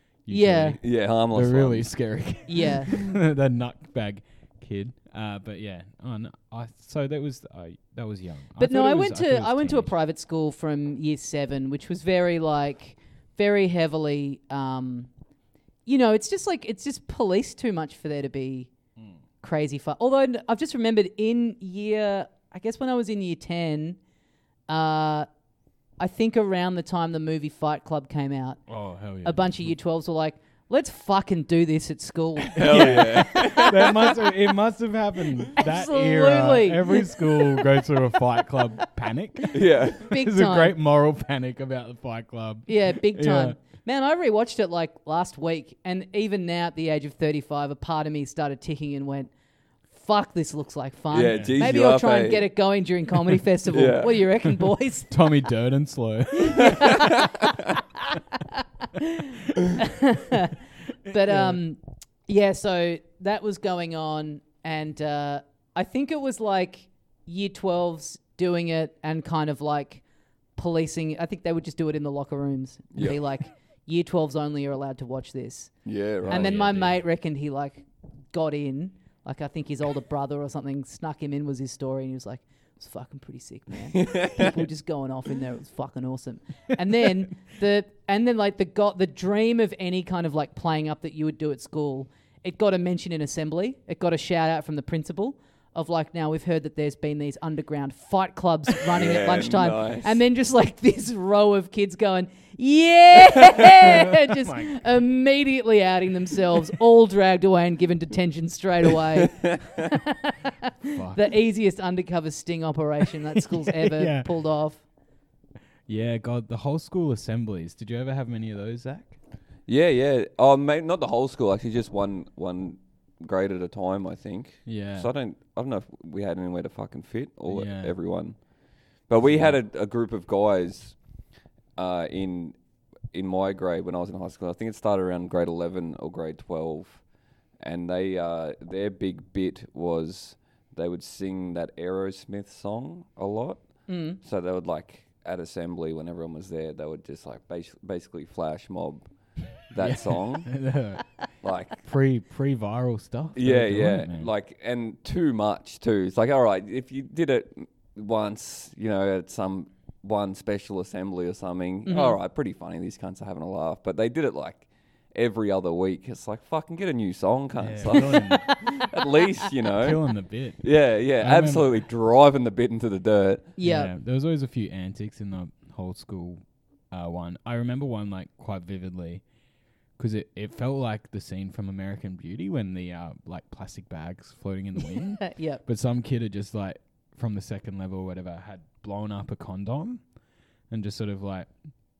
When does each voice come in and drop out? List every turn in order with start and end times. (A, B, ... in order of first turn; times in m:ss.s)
0:00.2-0:09.9 A
0:00.3-0:00.8 B
0:00.8-0:02.0 C
0:02.5-0:02.9 B
0:08.6-0:15.1 B
0:15.9-0:18.7 B
0:19.4-0:24.0 B
0:24.7-0:25.3 B
0:26.0-0:28.6 B
0:28.7-0:29.7 A
0:29.2-0:34.2 B
0:32.6-0:34.2 C
0:32.6-0:43.6 A
0:35.5-0:37.8 B
0:39.5-0:40.1 C
0:40.0-0:40.7 B
0:42.7-0:49.3 B
0:49.9-0:55.2 B
0:51.1-0:52.5 C
0:51.2-0:51.6 A
0:53.7-0:54.3 C
0:55.1-0:57.1 A
0:56.4-0:57.7 B
0:56.6-0:57.7 C
0:58.3-1:00.6 B
1:01.1-1:10.0 B
1:01.1-1:01.6 A
1:10.6-1:54.8 B
1:15.8-1:17.0 C
1:16.2-1:16.8 A
1:23.9-1:24.5 C
1:38.9-1:40.2 C
1:43.6-1:44.8 A
1:49.2-1:49.9 C
1:51.0-1:51.3 A
1:53.4-1:54.3 A
1:55.9-1:59.2 A
1:59.7-2:08.4 C
2:04.7-2:05.1 A
2:07.5-2:07.9 A
2:09.1-2:11.0 C
2:11.8-2:12.6 C
2:13.1-2:17.0 C
2:17.6-2:23.6 C
2:23.9-2:24.2 B
2:24.2-2:29.0 C
2:29.6-2:30.5 C
2:29.8-2:31.1 A
2:31.4-2:31.8 C
2:31.8-2:34.3 A
2:33.4-2:50.0 C
2:41.9-2:42.2 B
2:47.6-2:48.6 A
2:48.3-2:48.9 B
2:49.6-2:51.8 A
2:50.6-2:53.5 C
2:53.6-2:53.9 B
2:53.6-2:59.2 A
3:00.0-3:10.1 A
3:05.2-3:05.6 B
3:10.7-3:11.5 A